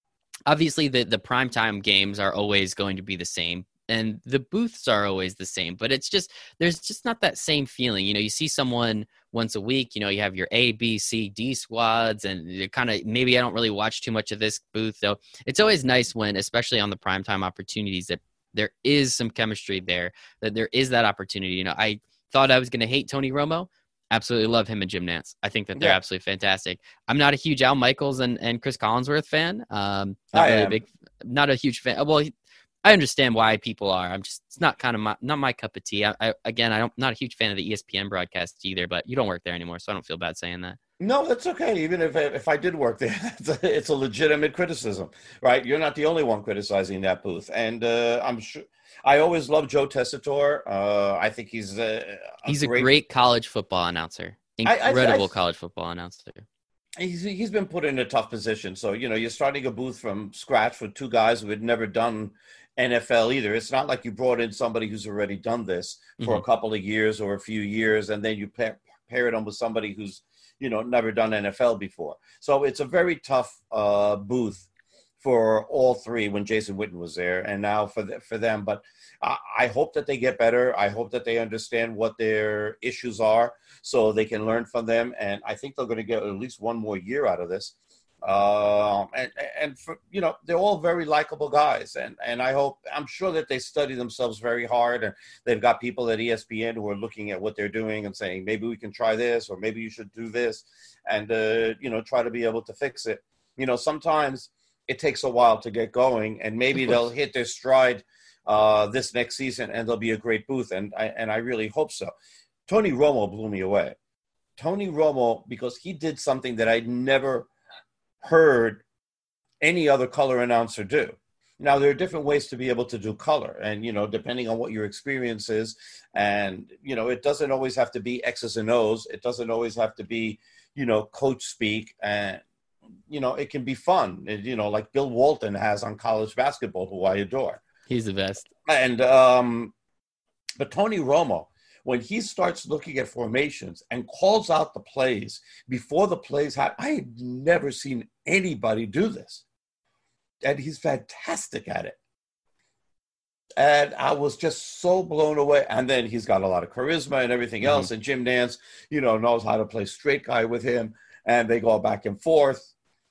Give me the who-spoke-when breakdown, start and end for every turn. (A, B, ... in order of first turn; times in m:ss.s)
0:00.5-0:32.3 A
0:30.3-0:30.8 B
0:32.8-0:40.8 A
0:41.0-0:52.9 B
0:52.5-0:56.5 A
0:54.6-0:55.3 B
0:57.0-1:14.7 B
1:06.2-1:06.4 A
1:15.2-1:52.1 B
1:52.7-1:54.0 B
1:54.6-1:57.5 B
1:58.2-1:58.8 B
1:59.6-2:12.4 B
2:13.1-2:17.6 B
2:17.9-2:18.5 A
2:18.7-2:19.7 B
2:20.6-2:29.4 B
2:30.4-2:32.0 B
2:33.6-2:42.7 B
2:37.6-2:37.9 A